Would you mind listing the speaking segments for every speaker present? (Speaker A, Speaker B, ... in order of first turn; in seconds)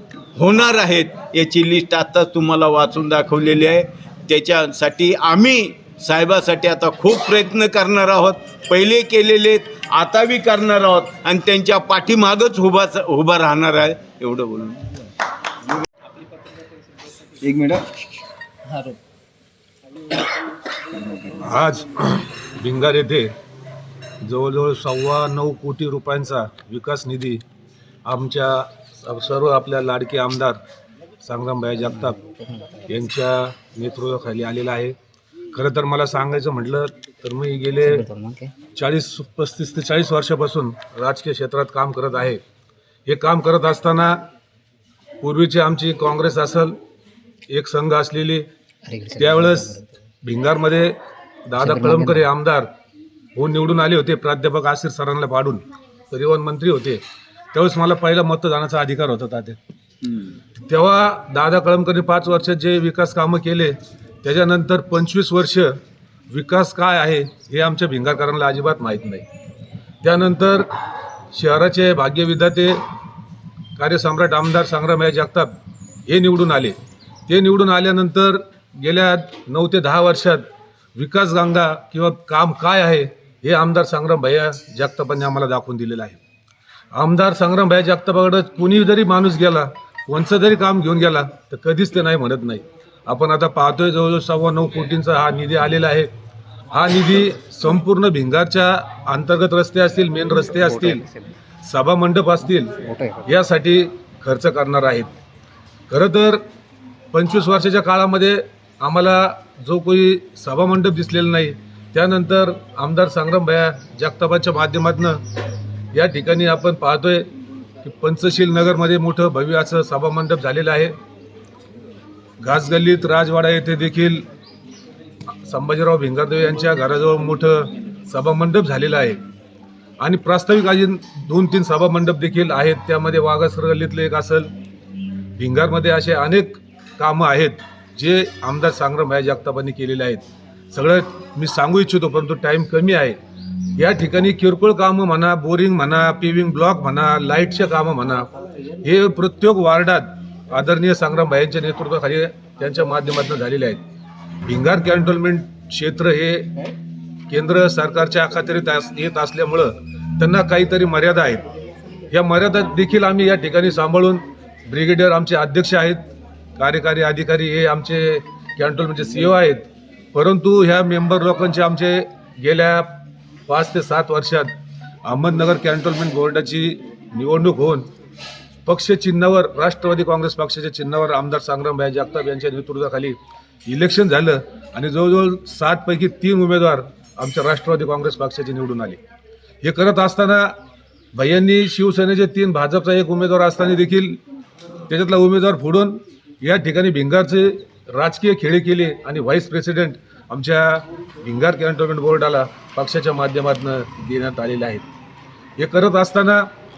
Speaker A: 0.4-14.9
Speaker B: 17.4-17.9, 38.0-38.5, 48.9-49.9, 51.6-52.2
Speaker C: 21.4-23.3, 24.2-27.4, 28.1-30.6, 31.2-32.2, 32.9-35.0, 35.5-38.1, 38.8-42.4, 43.1-44.2, 45.2-46.8, 47.5-48.5, 49.2-51.0, 51.5-52.7, 53.4-57.0, 57.5-59.6, 60.6-65.8, 66.3-69.3, 70.0-70.7, 71.3-72.8, 73.8-75.5, 76.1-76.8, 77.3-80.5, 81.0-86.2, 86.9-96.1, 96.7-101.1, 101.6-105.1, 105.9-106.4, 107.1-115.2, 115.9-117.3, 117.8-120.9, 122.4-124.3, 125.5-129.2, 130.0-134.5, 135.4-143.2, 143.8-148.3, 148.8-153.8, 154.4-156.6, 157.3-161.5, 162.1-166.0, 166.6-174.5, 175.1-177.9, 178.7-189.0, 189.6-190.5, 191.2-194.2, 194.9-204.8, 205.6-206.4